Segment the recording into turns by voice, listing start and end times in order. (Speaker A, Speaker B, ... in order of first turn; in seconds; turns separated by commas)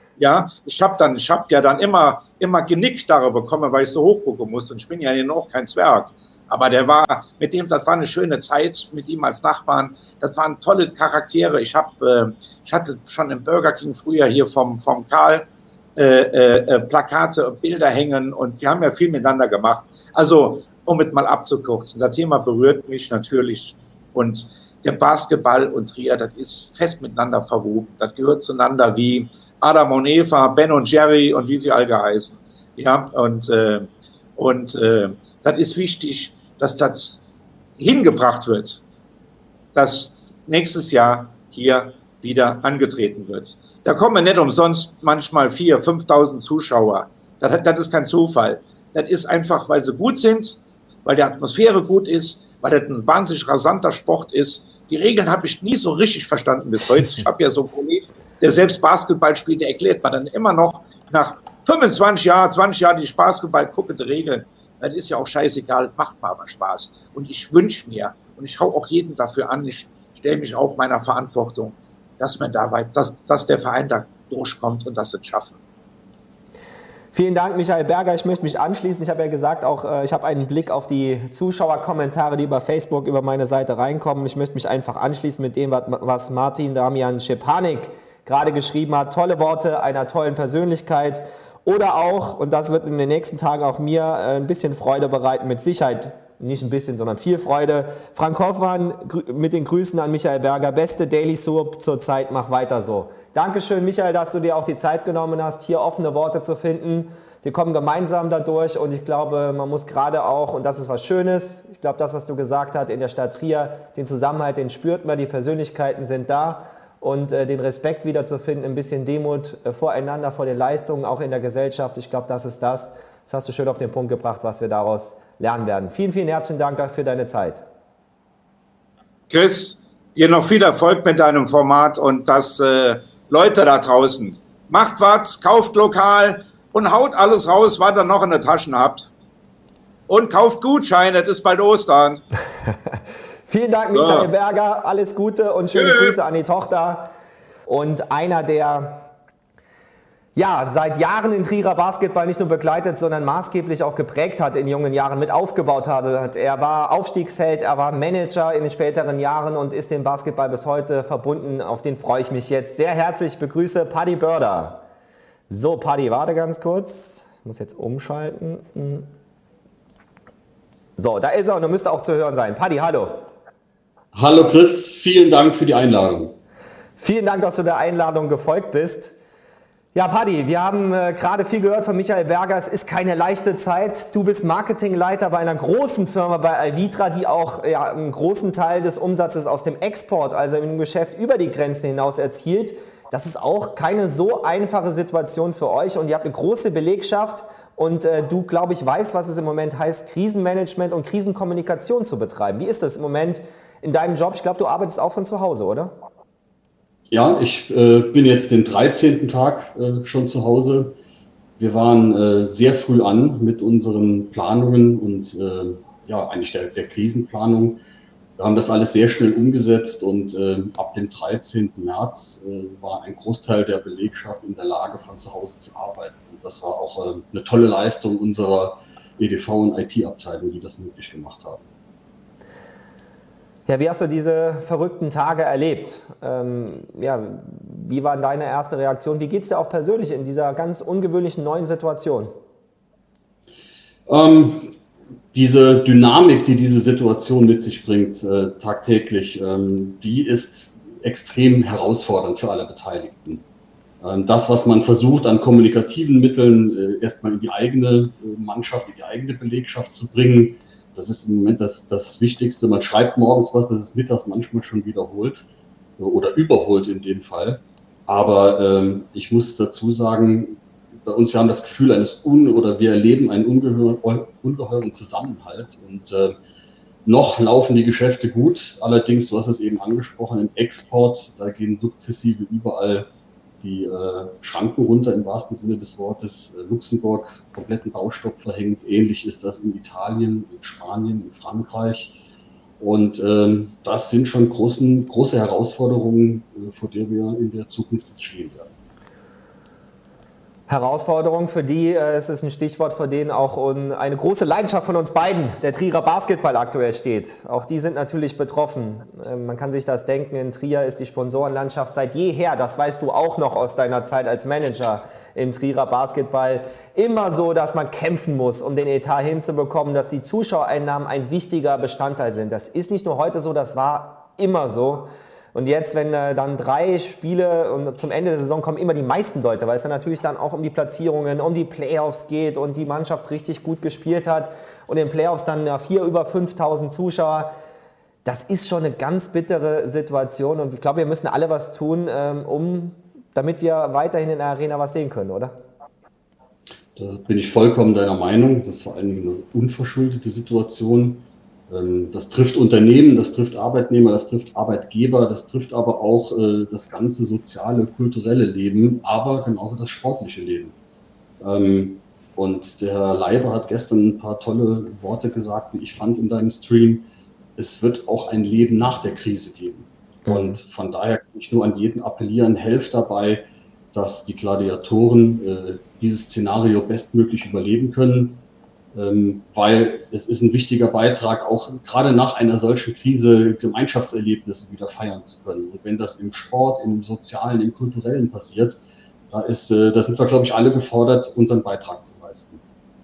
Speaker A: 0.2-37.2, Speaker A: 37.8-38.8, Speaker A: 39.8-75.6, Speaker B: 77.1-127.6, Speaker A: 129.3-139.1, Speaker A: 140.1-142.2, Speaker B: 143.5-147.1, Speaker A: 143.9-144.3, Speaker A: 145.7-146.2, Speaker B: 147.7-149.1, Speaker B: 150.3-164.8, Speaker B: 165.5-169.1, Speaker B: 171.0-173.3, Speaker C: 174.1-176.4, Speaker B: 177.0-179.1, Speaker B: 179.9-205.9, Speaker C: 207.1-210.9, Speaker C: 211.6-217.8, Speaker C: 218.4-231.7, Speaker B: 233.7-242.3, Speaker C: 244.1-244.8, Speaker C: 245.3-253.4, Speaker C: 254.0-265.4, Speaker C: 266.0-276.4, Speaker C: 277.1-283.1, Speaker C: 283.6-292.2, Speaker C: 292.8-298.7, Speaker B: 300.7-337.5, Speaker B: 338.2-345.6, Speaker C: 346.9-360.7, Speaker C: 361.4-378.4, Speaker B: 370.3-370.6, Speaker C: 378.9-388.8, Speaker C: 389.3-392.6